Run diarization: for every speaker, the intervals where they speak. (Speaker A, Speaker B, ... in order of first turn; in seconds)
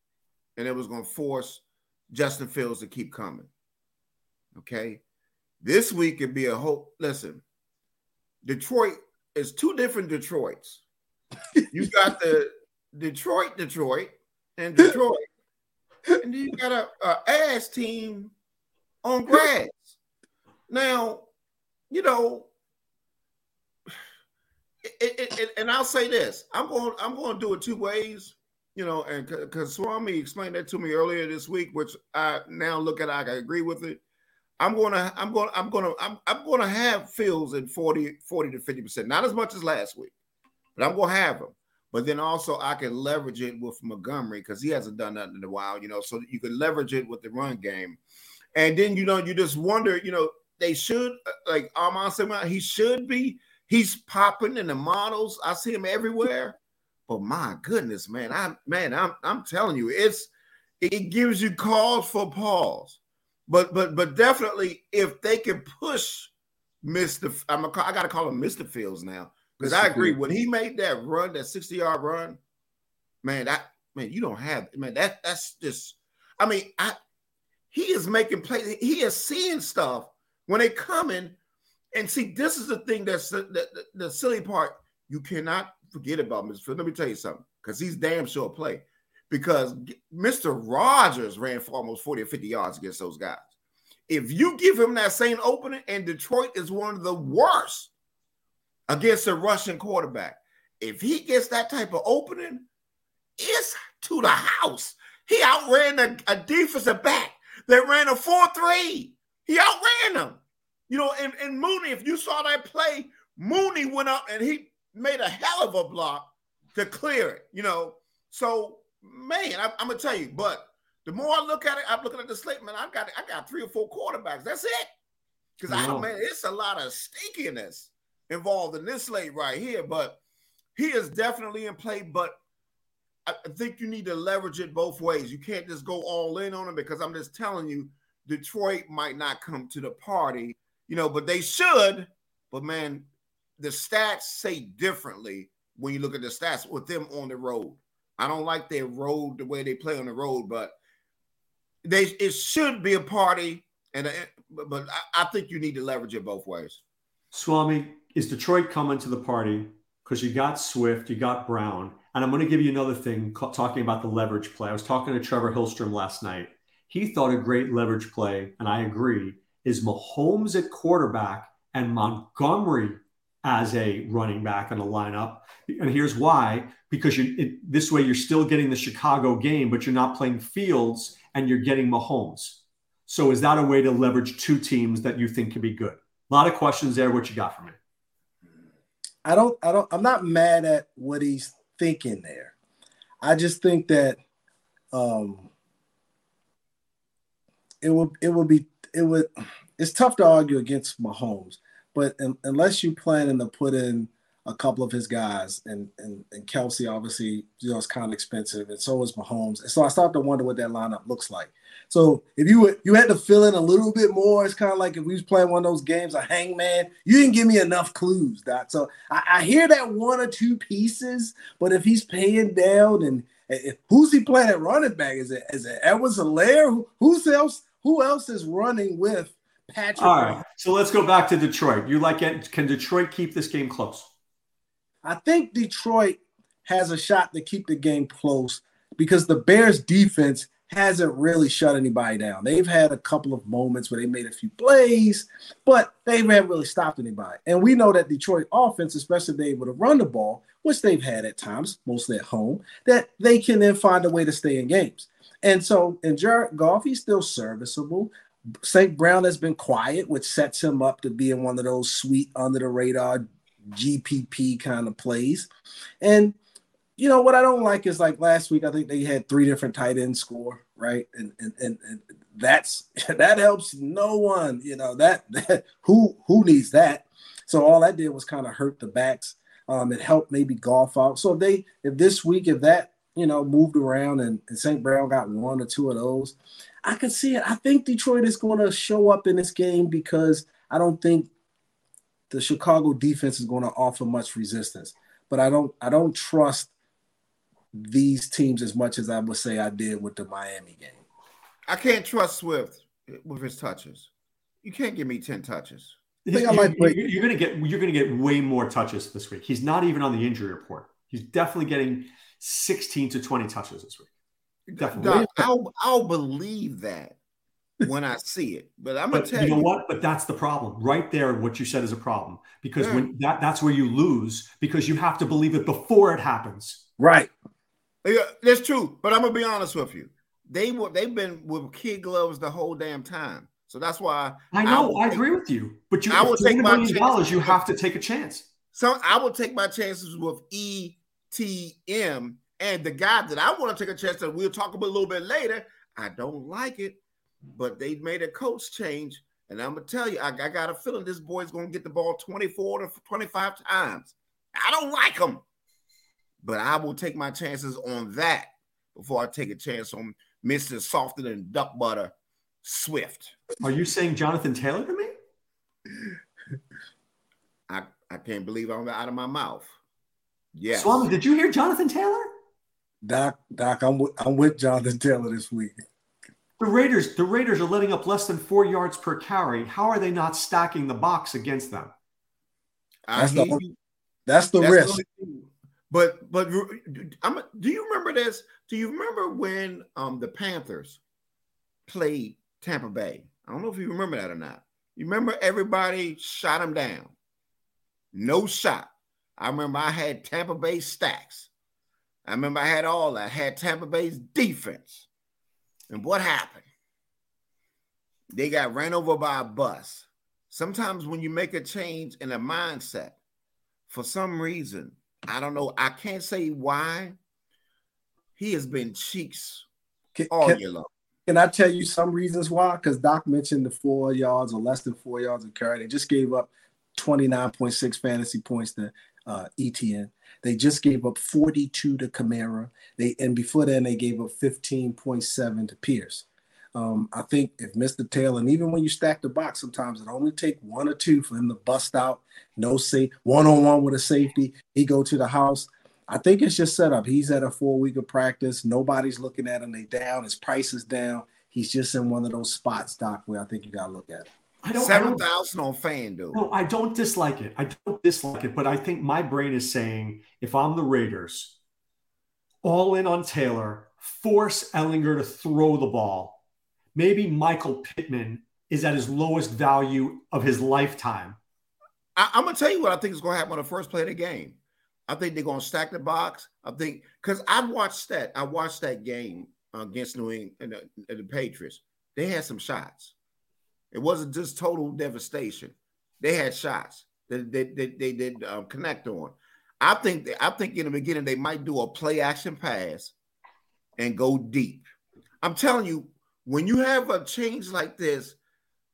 Speaker A: 0.6-3.5, 4.5-5.0, 5.6-7.4, 8.4-10.8, 11.7-15.2, 16.2-18.3, 19.0-19.9, 20.7-21.3, 21.9-22.5, 24.8-34.0, 34.6-40.1, 40.8-48.0, 48.5-66.3, 66.8-72.4, 73.2-77.0, 77.7-81.4, 81.9-93.4, 94.1-97.9, 98.9-102.7, 103.4-124.9, 125.6-130.2, 130.8-132.3, 133.3-143.1, 143.6-150.8, 151.8-156.8, 301.7-304.1, 304.6-306.0, 314.7-317.2, 317.8-319.7, 322.8-323.1, 328.0-335.2, 336.1-337.6, 338.8-347.0, 347.6-355.4, 356.4-362.1, 362.6-363.4, 367.7-369.7, 370.6-371.1, 383.1-383.8, 384.6-391.0, 391.9-397.1, 398.1-401.5, 402.2-405.1, 405.9-406.7, 408.3-413.2, 413.9-417.2, 418.4-419.7, 420.3-420.9, 454.8-456.4, 472.2-483.1, 483.9-493.1, 494.0-494.9, 495.4-498.4
Speaker B: 69.6-70.2, 189.2-192.5, 193.2-194.2, 194.9-195.5, 197.8-230.4, 235.0-265.5, 266.0-266.4, 267.0-291.3, 292.3-296.7, 297.7-301.0, 306.3-307.0, 327.0-327.3, 373.0-375.8, 383.2-383.6, 384.3-385.0, 420.1-420.6, 421.3-454.3
Speaker C: 125.7-126.1, 157.3-187.8, 230.0-234.1, 306.2-314.1, 314.8-315.4, 319.1-326.8, 334.5-338.5, 363.6-365.1, 370.7-372.3, 376.6-381.9, 454.6-455.3, 456.3-461.6, 462.6-466.4, 466.9-471.4